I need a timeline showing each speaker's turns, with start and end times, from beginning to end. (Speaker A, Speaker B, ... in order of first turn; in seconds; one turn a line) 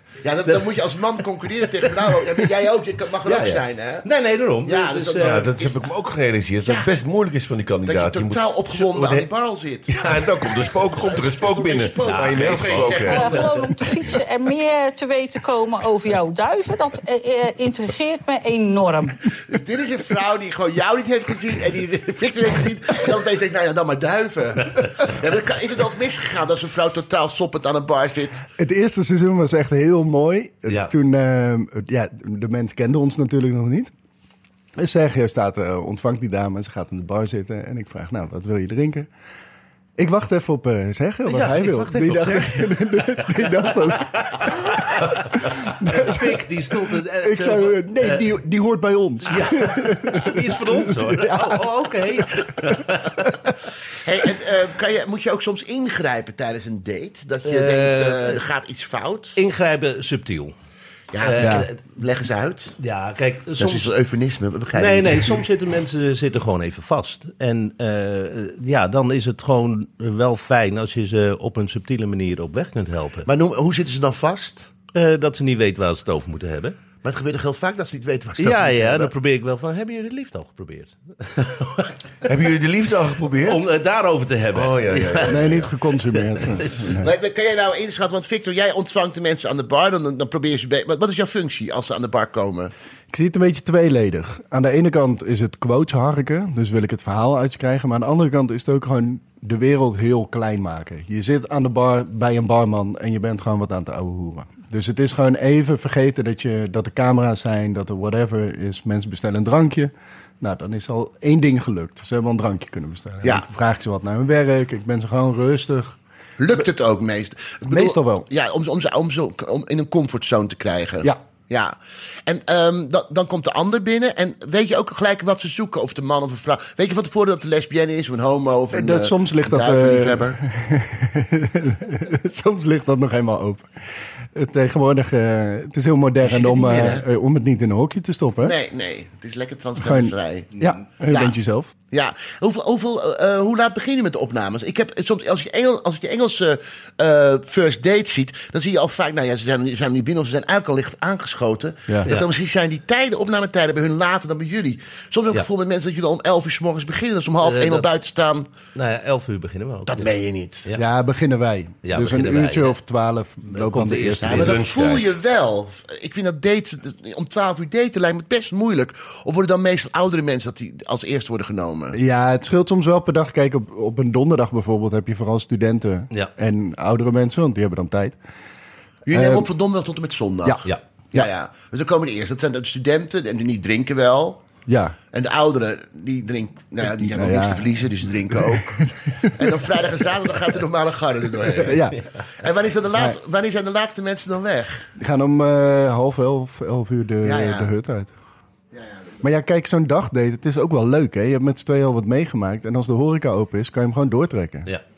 Speaker A: 0.2-4.1
Speaker B: 2.1-2.4
Speaker B: 3.2-5.5
Speaker A: 4.6-5.8
Speaker C: 5.2-9.3
Speaker A: 6.6-6.9
Speaker A: 7.8-13.5
Speaker C: 9.9-13.5
Speaker B: 12.0-13.2
Speaker D: 13.1-19.2
Speaker A: 19.5-28.5
Speaker E: 28.6-33.9
Speaker E: 34.8-39.1
Speaker E: 40.0-51.7
Speaker B: 41.3-48.3
Speaker B: 49.2-53.3
Speaker A: 54.0-59.4
Speaker B: 57.5-58.4
Speaker B: 59.4-60.5
Speaker A: 61.1-62.8
Speaker B: 61.2-61.8
Speaker E: 61.4-61.7
Speaker B: 62.8-63.9
Speaker A: 63.6-65.5
Speaker B: 64.7-73.3
Speaker A: 73.2-74.7
Speaker B: 74.9-76.8
Speaker A: 77.0-79.1
Speaker B: 78.4-81.9
Speaker C: 82.2-83.6
Speaker B: 83.4-85.6
Speaker C: 84.5-85.7
Speaker E: 85.2-87.1
Speaker A: 87.0-92.7
Speaker E: 93.1-116.0
Speaker A: 116.4-130.4
Speaker E: 117.7-118.3
Speaker E: 128.7-133.7
Speaker E: 134.3-138.6
Speaker A: 136.2-137.1
Speaker A: 138.4-140.5
Speaker E: 139.8-141.7
Speaker A: 141.1-141.4
Speaker A: 141.9-158.5
Speaker B: 157.4-157.9
Speaker B: 158.8-160.1
Speaker A: 159.9-160.7
Speaker E: 160.8-164.6
Speaker B: 161.8-162.8
Speaker B: 163.5-164.6
Speaker A: 164.2-172.0
Speaker C: 164.3-165.2
Speaker E: 171.9-178.2
Speaker A: 179.1-184.4
Speaker E: 179.1-179.5
Speaker E: 180.4-181.3
Speaker E: 184.7-185.0
Speaker A: 185.1-191.8
Speaker E: 186.8-189.3
Speaker E: 191.6-192.0
Speaker A: 192.4-194.9
Speaker E: 195.0-198.1
Speaker A: 197.2-197.7
Speaker A: 198.7-199.1
Speaker E: 199.2-204.7